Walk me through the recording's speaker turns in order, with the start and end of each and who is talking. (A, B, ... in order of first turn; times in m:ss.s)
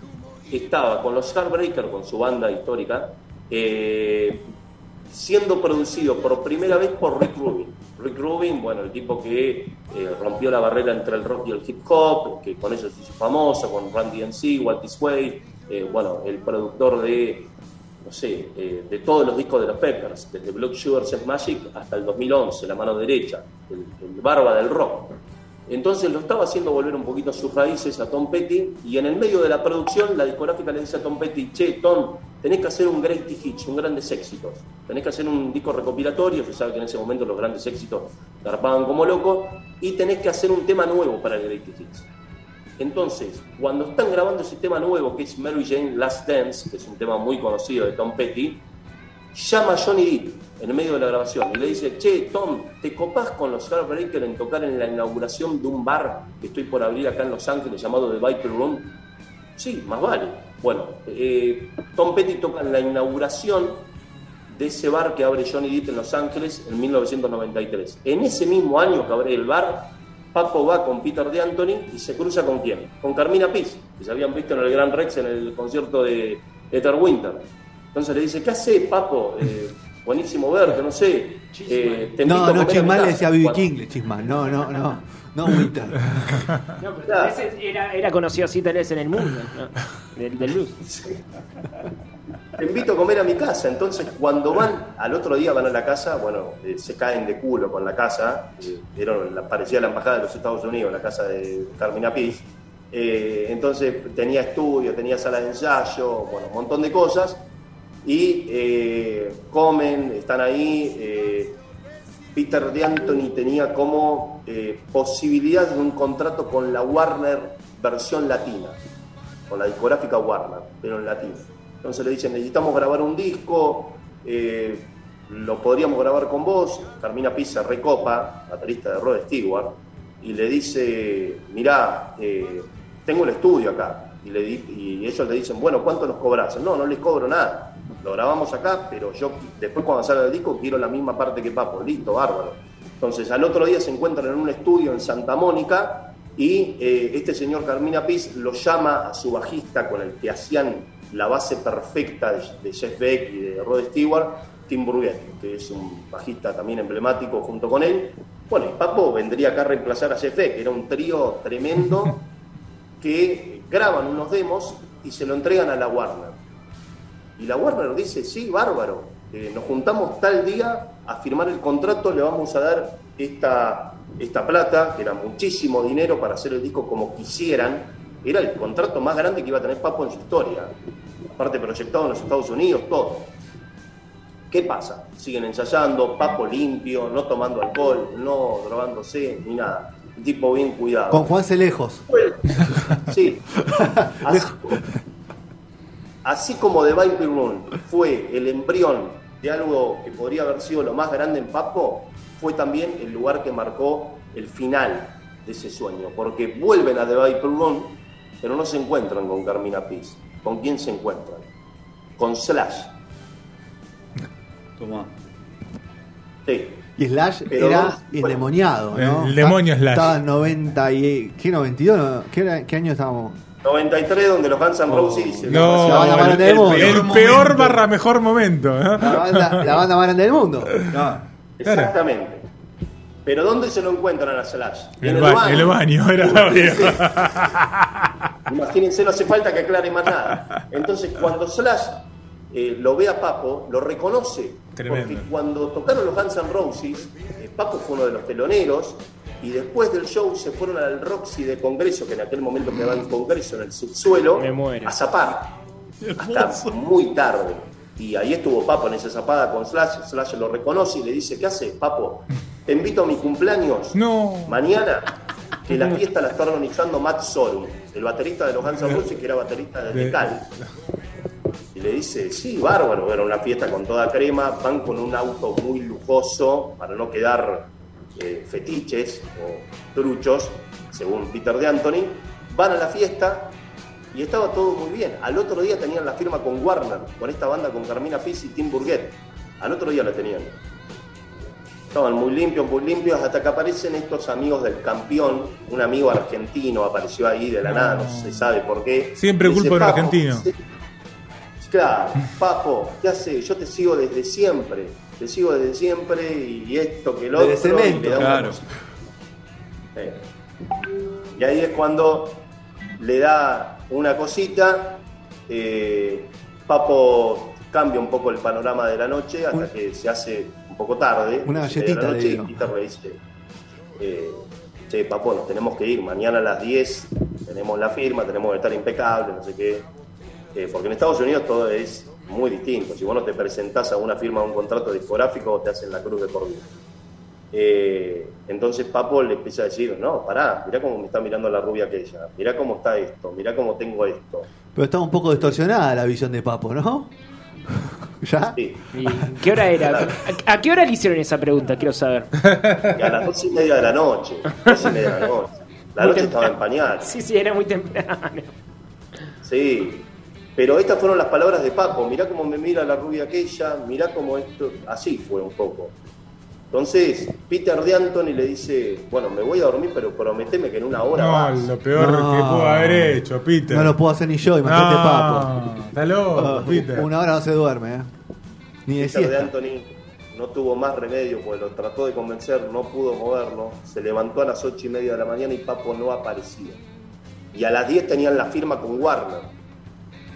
0:00.5-0:04.5 A
0:05.1-0:17.5 A
0:18.0-0:25.2 A
0:25.7-0:42.1 A
0:42.8-0:48.6 A
0:49.3-0:59.0 A
0:59.6-1:03.9 A
1:04.5-1:23.7 A
1:21.5-1:22.1 B
1:22.2-1:26.4 C
1:26.8-1:30.8 B
1:27.1-1:27.4 A
1:32.6-1:47.4 A
1:48.0-1:51.6 A
1:52.4-1:58.8 A
1:59.5-2:42.2 A
2:43.0-2:46.4 A
2:47.4-3:00.7 A
3:01.3-3:03.3 A
3:04.5-3:11.4 A
3:11.1-3:12.1 C
3:12.1-3:14.8 A
3:13.7-3:14.8 C
3:16.2-3:31.4 A
3:32.2-3:32.9 A
3:34.8-3:35.1 D
3:36.5-3:36.8 A
3:37.0-3:43.4 C
3:37.5-3:38.5 A
3:38.9-3:40.2 E
3:43.6-3:46.4 A
3:45.4-3:47.1 C
3:45.5-3:49.7 E
3:46.2-3:47.6 D
3:49.0-3:50.8 C
3:50.9-3:51.2 D
3:51.6-3:52.4 A
3:51.7-3:51.9 E
3:53.2-3:57.2 A
3:55.0-3:57.9 E
3:58.5-4:15.5 A
4:04.8-4:05.3 E
4:14.3-4:15.0 B
4:16.2-4:25.1 A
4:24.0-4:24.6 E
4:25.7-4:30.5 A
4:31.7-4:43.6 A
4:44.1-4:50.6 A
4:51.9-5:00.6 A
4:57.7-4:58.5 E
4:59.2-5:00.5 E
5:01.6-5:08.6 A
5:07.4-5:08.4 C
5:08.2-5:08.6 D
5:10.0-5:10.2 A
5:11.3-5:12.5 A
5:13.0-5:23.2 A
5:21.4-5:22.6 C
5:24.0-5:29.9 A
5:30.5-5:36.7 A
5:37.5-5:44.5 A
5:44.8-5:47.1 C
5:47.7-5:49.4 C
5:48.6-5:48.9 A
5:48.9-5:52.4 B
5:49.8-5:50.2 A
5:52.9-5:57.1 A
5:54.7-5:54.9 B
5:56.0-5:58.5 B
5:59.4-6:05.9 A
6:06.7-6:11.7 A
6:11.1-6:14.0 E
6:11.9-6:15.6 C
6:14.6-6:17.1 E
6:16.3-6:18.1 C
6:18.9-6:19.5 C
6:19.0-6:26.8 A
6:27.5-6:29.5 A